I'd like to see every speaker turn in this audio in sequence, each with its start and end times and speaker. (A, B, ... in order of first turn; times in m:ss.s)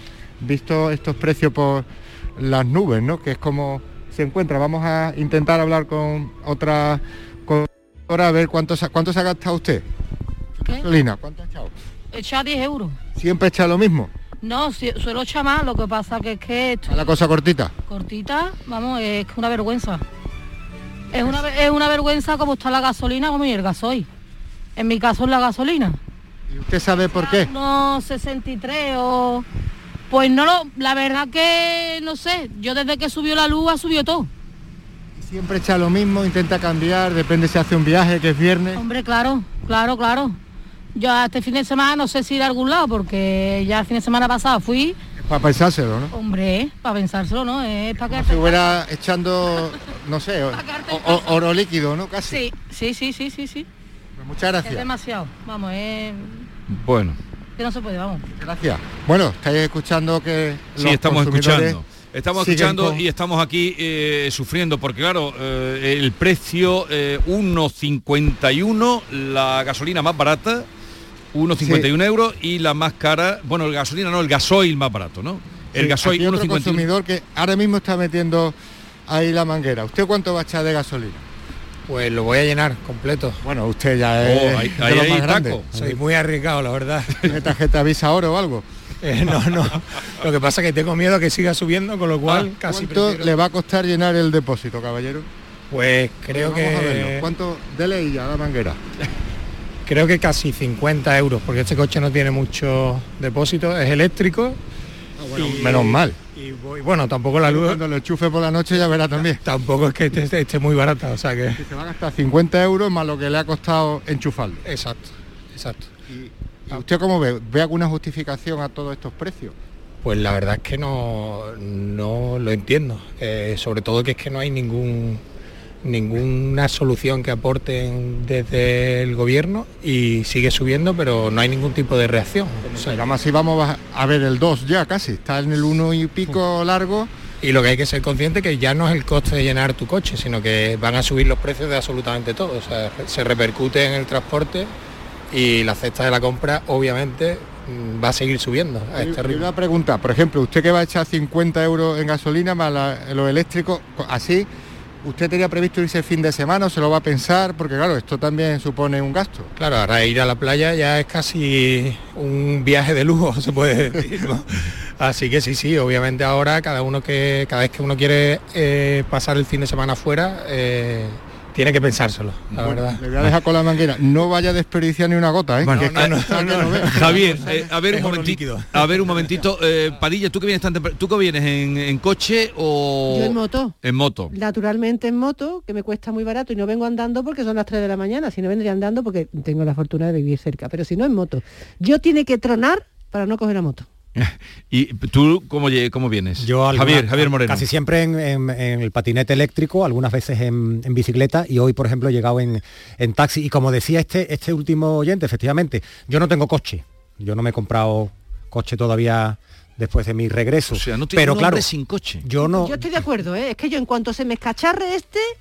0:00.4-0:09.8 A
0:10.6-0:11.7 A
0:12.1-0:13.0 B
0:13.2-0:14.1 A
0:14.4-0:17.1 B
0:16.9-0:17.7 A
0:17.9-0:20.0 B
0:21.1-0:24.1 B
0:24.8-0:26.0 B
0:26.5-0:27.5 A
0:27.1-0:29.4 B
0:30.1-0:34.3 B
0:35.2-0:38.8 A
0:38.8-0:40.4 B
0:41.0-0:45.0 B
0:45.3-0:46.1 A
0:46.1-0:48.8 B
0:48.0-0:52.4 A
0:50.5-0:51.3 B
0:52.3-0:53.7 B
0:54.2-0:54.9 A
0:54.6-0:56.5 B
0:56.7-0:57.2 C
0:57.6-0:58.2 B
0:58.4-1:01.8 A
1:00.8-1:10.7 C
1:02.3-1:03.0 A
1:11.3-1:16.9 C
1:11.6-1:11.9 A
1:15.8-1:18.6 A
1:19.1-1:21.2 A
1:21.9-1:23.4 D
1:23.4-1:26.0 A
1:24.2-1:25.7 C
1:25.7-1:27.2 D
1:27.2-1:28.6 A
1:29.0-1:33.3 D
1:32.6-1:35.3 A
1:35.7-1:37.3 D
1:36.3-1:38.8 A
1:39.9-1:44.6 D
1:45.2-1:46.2 A
1:45.3-1:47.8 D
1:47.4-1:49.4 A
1:49.3-1:51.6 D
1:51.6-1:54.6 A
1:54.6-1:55.9 D
1:56.1-1:59.5 A
2:00.0-2:05.2 D
2:05.8-2:13.0 D
2:12.7-2:17.1 A
2:17.4-2:24.7 D
2:25.3-2:29.5 D
2:29.0-2:34.5 A
2:35.0-2:39.5 A
2:39.6-2:53.0 D
2:44.0-2:44.3 A
2:52.6-2:57.2 A
2:55.6-2:56.2 C
2:55.7-2:59.2 D
2:56.9-3:04.4 C
3:03.1-3:03.7 E
3:04.3-3:13.8 E
3:14.2-3:17.7 C
3:16.4-3:31.7 F
3:30.7-3:32.3 C
3:32.2-3:32.9 F
3:32.5-3:35.2 E